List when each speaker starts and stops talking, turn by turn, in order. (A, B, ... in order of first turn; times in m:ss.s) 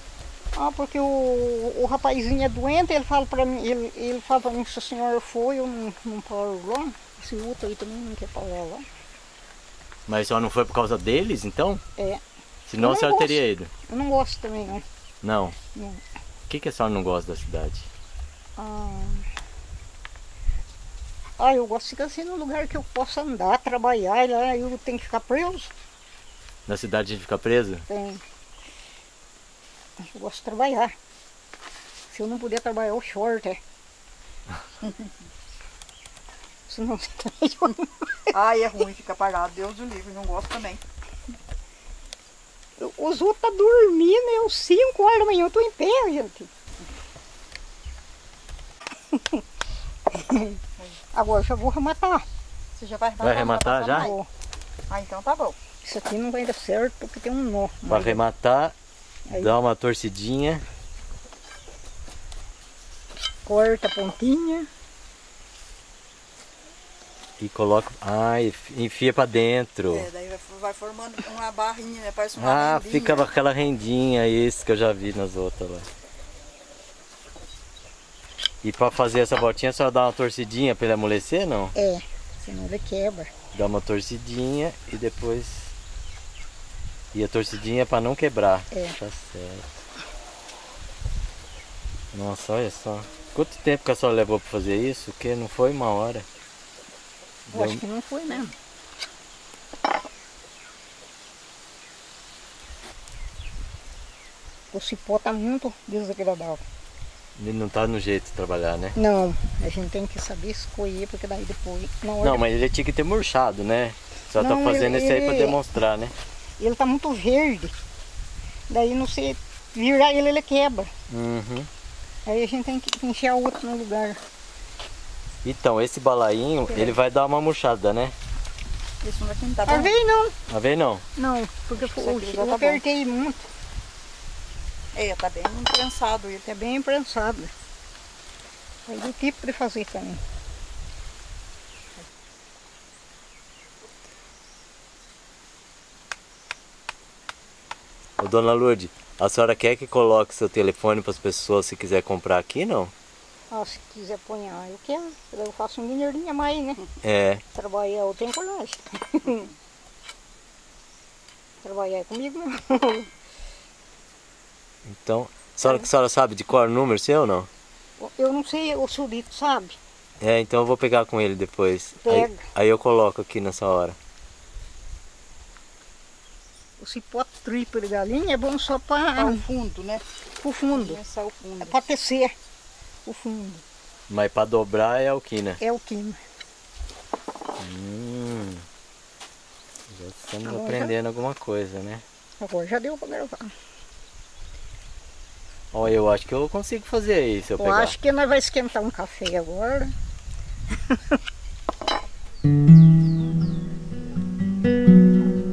0:00.6-0:08.9 A
0:10.1-0:11.8 B
0:12.0-0:12.2 A
0:12.7-0:13.7 B
0:12.8-0:14.8 A
0:15.2-0:15.6 B
0:15.8-0:16.0 A
0:16.5-0:17.9 B
0:18.6-0:19.3 A
0:21.4-0:25.7 A
0:26.7-0:27.9 B
0:27.9-0:28.2 A
0:30.0-0:30.9 A
0:32.1-0:33.6 A
0:34.8-0:35.1 C
0:36.7-0:38.3 A
0:38.3-0:40.8 C
0:42.8-0:46.5 A
0:49.1-0:49.4 A
0:50.1-0:50.6 A
0:51.1-0:52.3 A
0:52.8-0:54.2 C
0:53.2-0:54.1 B
0:53.9-0:54.3 A
0:54.9-0:55.6 C
0:55.8-0:58.2 A
0:57.9-0:58.8 B
0:59.3-1:00.6 B
1:03.5-1:04.7 A
1:07.4-1:10.1 B
1:09.9-1:13.3 C
1:12.4-1:15.9 B
1:18.6-1:21.7 B
1:21.8-1:23.3 A
1:23.5-1:25.7 B
1:27.1-1:29.8 B
1:28.7-1:29.0 A
1:32.1-1:36.3 B
1:37.5-1:37.8 B
1:37.5-1:38.6 A
1:44.7-1:46.6 A
1:47.4-1:49.0 B
1:49.0-1:52.4 A
1:52.2-1:56.2 B
1:54.4-1:55.6 A
1:56.6-1:57.8 A
1:58.7-2:00.9 A
2:01.1-2:01.7 B
2:02.3-2:04.2 A
2:05.4-2:08.2 B
2:09.0-2:10.0 C
2:09.7-2:10.4 A
2:10.5-2:11.0 B
2:11.2-2:13.4 A
2:11.8-2:12.8 C
2:14.9-2:16.6 C
2:16.6-2:17.5 A
2:18.9-2:20.2 A
2:28.2-2:32.9 B
2:33.5-2:36.9 A
2:37.0-2:37.4 B
2:37.5-2:39.5 A
2:41.6-2:43.1 A
2:44.9-2:47.5 B
2:48.0-2:49.8 A
2:50.2-2:54.0 B
2:52.0-2:52.5 A
2:56.8-2:59.4 A
2:59.2-3:00.0 C
3:00.4-3:01.0 A
3:00.7-3:01.8 C
3:01.6-3:02.4 A
3:03.0-3:03.6 A
3:04.1-3:05.6 B
3:05.6-3:06.2 A
3:07.6-3:08.6 B
3:09.9-3:12.0 B
3:10.4-3:10.9 A
3:12.4-3:13.5 A
3:15.7-3:18.0 B
3:17.6-3:19.9 A